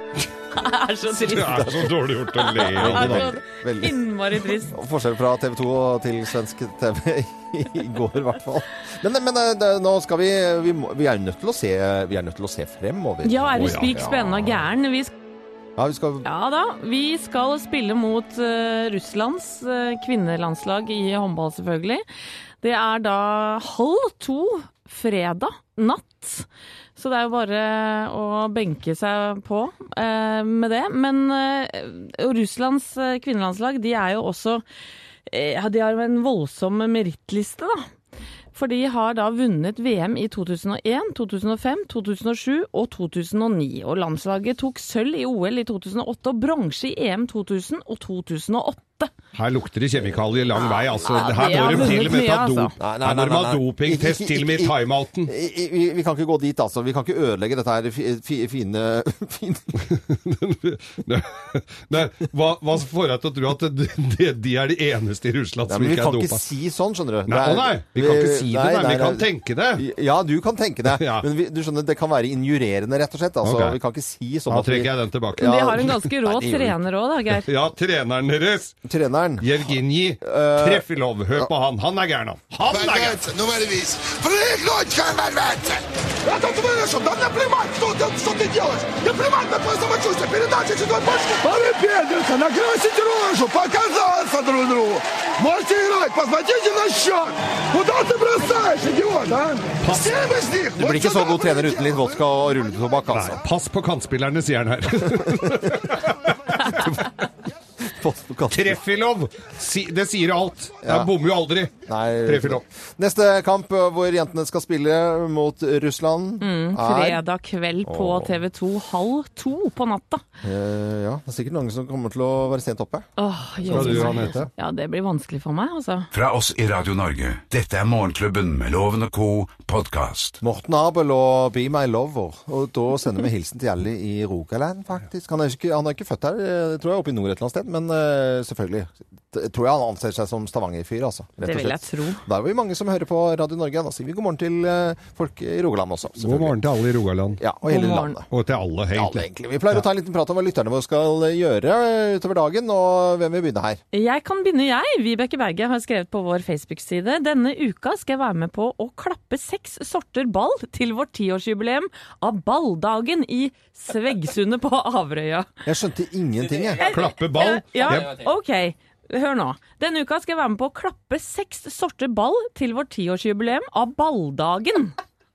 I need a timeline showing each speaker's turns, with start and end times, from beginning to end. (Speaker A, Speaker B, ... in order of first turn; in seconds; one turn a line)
Speaker A: 0.5-4.7
Speaker B: 1.2-3.3
Speaker C: 1.5-1.9
Speaker C: 2.6-14.2
Speaker A: 13.2-15.1
Speaker B: 13.6-14.0
Speaker C: 15.8-16.2
Speaker A: 16.2-22.0
Speaker A: 22.6-34.6
Speaker A: 35.3-37.8
Speaker A: 38.5-49.1
Speaker B: 49.3-55.3
Speaker A: 50.5-52.7
Speaker C: 52.8-54.7
Speaker C: 55.2-59.8
Speaker B: 59.8-66.4
Speaker C: 65.7-76.8
Speaker B: 67.3-69.8
Speaker B: 70.9-71.2
Speaker B: 73.4-73.8
Speaker B: 74.5-75.5
Speaker A: 75.4-77.5
Speaker B: 77.4-78.7
Speaker C: 78.8-80.8
Speaker B: 79.4-83.2
Speaker D: 82.7-102.2
Speaker B: 99.8-100.1
Speaker C: 100.8-103.4
Speaker B: 103.1-107.0
Speaker C: 105.2-105.6
Speaker C: 107.8-108.8
Speaker B: 108.5-111.7
Speaker C: 110.8-111.1
Speaker C: 111.8-117.2
Speaker B: 112.2-112.6
Speaker A: 116.4-120.2
Speaker C: 117.8-118.4
Speaker C: 120.4-123.0
Speaker A: 123.2-126.1
Speaker C: 123.7-124.5
Speaker B: 123.7-124.4
Speaker E: 126.1-130.4
Speaker C: 130.4-146.6
Speaker A: 141.4-142.2
Speaker B: 146.2-147.4
Speaker C: 147.4-148.3
Speaker A: 147.7-148.1
Speaker B: 148.3-149.8
Speaker C: 148.9-153.8
Speaker A: 153.9-165.5
Speaker C: 165.6-166.9
Speaker A: 166.8-174.9
Speaker B: 166.8-168.2